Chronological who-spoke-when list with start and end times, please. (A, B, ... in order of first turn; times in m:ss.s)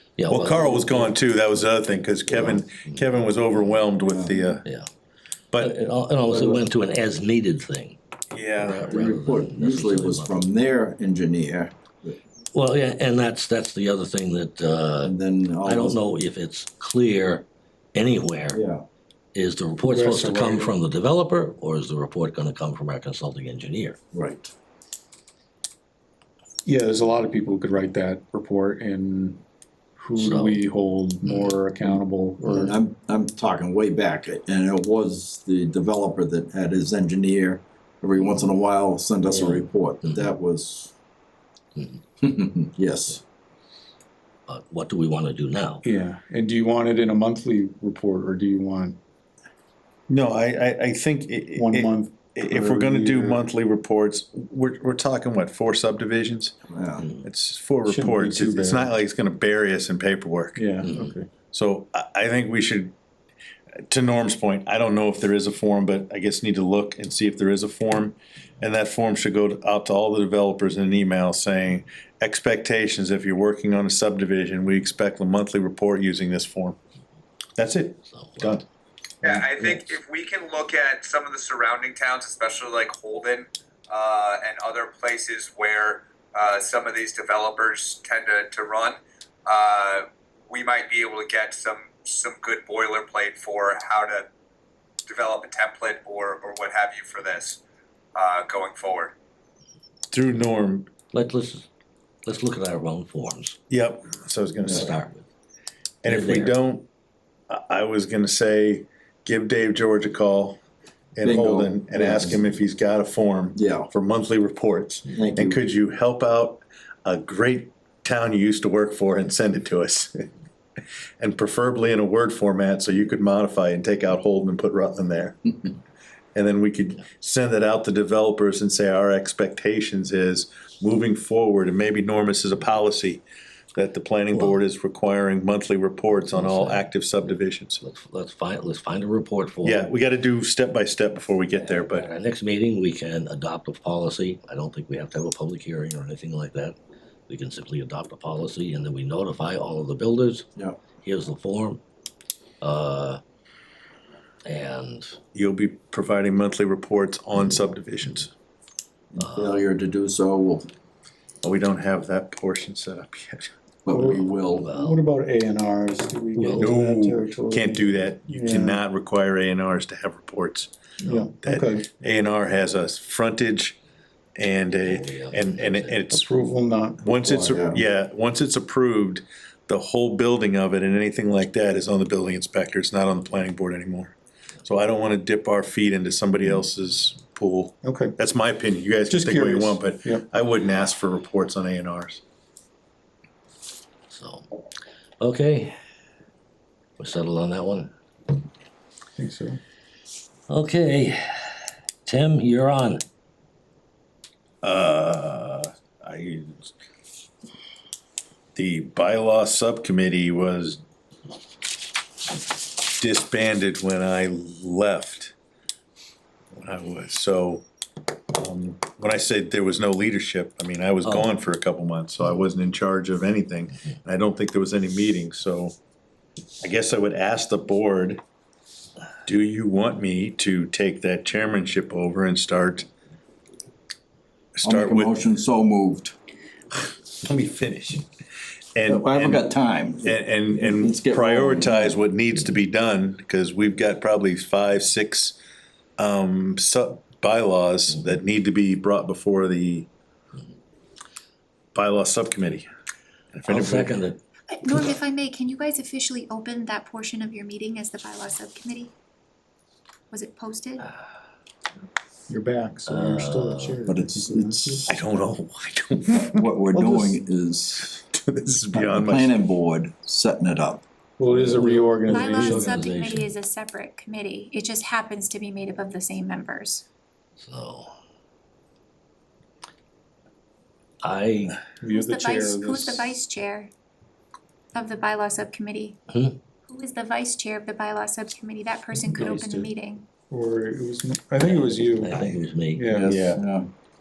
0:00.2-0:01.1 A
0:00.3-0:04.6 B
0:02.3-0:03.0 A
0:04.0-0:04.3 C
0:05.5-0:05.8 B
0:05.6-0:08.0 A
0:06.3-0:06.6 C
0:08.3-0:09.0 B
0:08.6-0:10.5 A
0:08.8-0:12.2 C
0:12.5-0:18.6 A
0:15.0-0:16.0 C
0:18.5-0:18.8 C
0:19.3-0:24.0 A
0:19.8-0:20.7 D
0:24.1-0:24.5 C
0:26.6-0:29.4 D
0:30.0-0:32.7 D
0:30.2-0:30.6 A
0:31.2-0:31.6 A
0:32.5-0:40.9 C
0:39.3-0:39.6 D
0:39.4-0:40.3 A
0:41.8-0:42.0 A
0:42.2-0:43.2 C
0:44.5-0:45.8 A
0:45.8-0:49.0 D
0:50.1-0:56.5 B
0:51.6-0:53.4 D
0:56.7-0:57.1 C
0:57.2-1:00.6 B
0:57.9-0:58.9 D
1:00.6-1:01.3 D
1:00.8-1:01.1 A
1:01.5-1:02.9 B
1:03.9-1:16.8 B
1:17.6-1:18.6 B
1:18.1-1:18.6 A
1:19.2-1:19.9 B
1:19.2-1:34.2 E
1:35.1-1:37.6 E
1:38.1-1:39.1 E
1:40.1-1:40.9 B
1:41.1-1:41.7 A
1:42.2-1:43.6 A
1:43.7-1:44.9 B
1:44.6-1:45.2 A
1:46.0-1:46.9 B
1:46.0-1:46.6 A
1:47.5-1:50.6 B
1:51.2-2:00.3 B
1:51.2-1:52.5 C
1:53.5-1:53.9 C
1:55.1-1:55.6 C
2:01.2-2:05.5 B
2:06.3-2:13.2 B
2:13.7-2:17.8 B
2:14.3-2:14.6 A
2:16.1-2:19.9 A
2:19.6-2:22.1 B
2:21.6-2:26.8 A
2:27.3-2:31.8 A
2:30.6-2:31.0 C
2:32.6-2:33.2 A
2:34.4-2:35.1 A
2:35.3-2:38.3 B
2:39.1-2:40.7 C
2:39.2-2:39.6 A
2:41.4-2:43.5 B
2:43.8-2:44.7 C
2:43.9-2:48.8 D
2:44.5-2:45.0 A
2:46.4-2:46.7 A
2:46.6-2:53.8 B
2:51.0-2:51.8 D
2:54.4-3:12.2 B
2:54.8-2:56.1 A
2:56.1-2:57.4 D
2:57.2-2:57.8 C
3:07.8-3:08.1 D
3:09.1-3:10.2 D
3:14.1-3:14.5 A
3:15.2-3:15.7 A
3:17.0-3:17.9 A
3:19.2-3:19.6 D
3:20.5-3:21.2 A
3:22.0-3:23.0 A
3:24.6-3:26.7 B
3:28.5-3:30.8 B
3:32.9-3:35.3 B
3:36.5-3:37.6 B
3:38.3-3:45.7 B
3:41.0-3:41.3 A
3:46.6-3:48.2 B
3:49.2-3:52.9 B
3:54.6-3:55.2 B
3:54.6-3:56.1 C
3:57.2-3:58.0 B
3:58.7-3:59.4 B
3:58.9-4:01.9 C
4:00.0-4:05.4 B
4:06.0-4:09.9 B
4:11.7-4:12.7 B
4:13.3-4:14.0 B
4:13.5-4:14.2 A
4:14.5-4:18.9 F
4:20.1-4:20.9 F
4:22.3-4:24.9 D
4:22.8-4:23.8 A
4:23.8-4:24.9 C
4:24.9-4:27.2 B
4:26.3-4:27.9 C
4:27.8-4:29.4 B
4:28.7-4:30.8 C
4:31.2-4:32.8 D
4:31.4-4:33.3 A
4:32.0-4:36.8 F
4:37.4-4:37.9 A
4:41.0-4:41.6 A
4:41.8-4:43.2 D
4:41.9-4:43.7 F
4:44.7-4:46.0 F
4:46.1-4:46.4 A
4:46.6-4:50.1 F
4:49.0-4:49.7 D
4:50.3-4:53.2 D
4:51.4-4:53.0 A
4:52.9-4:53.7 C
4:53.1-4:53.4 B